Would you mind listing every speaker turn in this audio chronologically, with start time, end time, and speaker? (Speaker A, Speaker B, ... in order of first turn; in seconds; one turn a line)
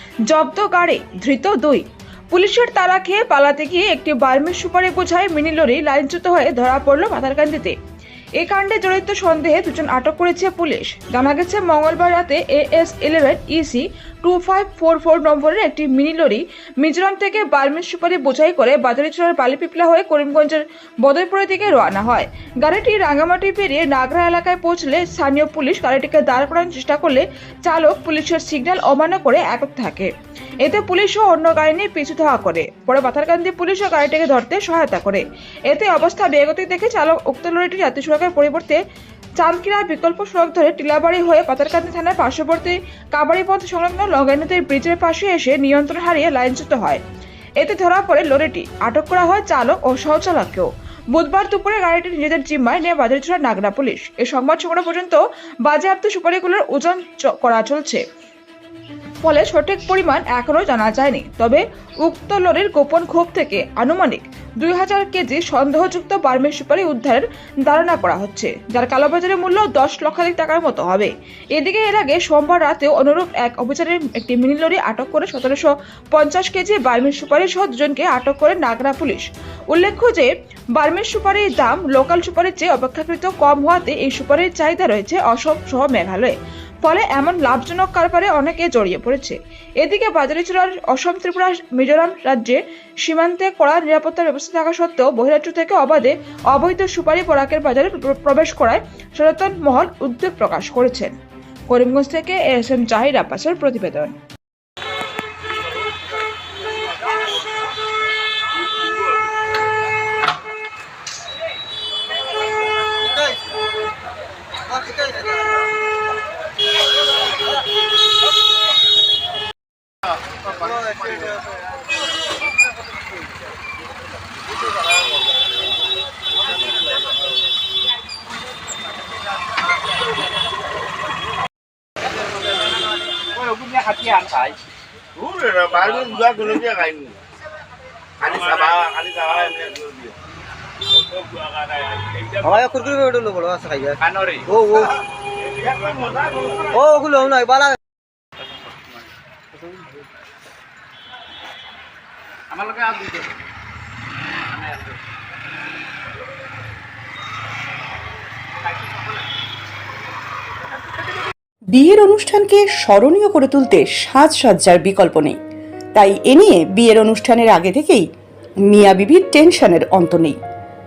Speaker A: 0.3-7.8
Speaker A: 8.4-30.1
Speaker A: 30.6-38.8
Speaker A: 39.4-47.0
Speaker A: 47.6-58.0
Speaker A: 59.2-101.2
Speaker A: 101.7-104.2
Speaker B: 114.8-115.3
Speaker B: 120.6-121.2
Speaker C: 133.4-134.6
Speaker C: 135.2-137.2
Speaker C: 138.2-140.1
Speaker C: 141.1-142.4
Speaker B: 142.4-144.9
Speaker C: 144.1-144.4
Speaker C: 145.7-146.5
Speaker B: 146.7-147.8
Speaker C: 152.5-153.2
Speaker C: 154.6-154.9
Speaker D: 161.7-165.4
Speaker D: 165.9-168.1
Speaker D: 168.7-170.4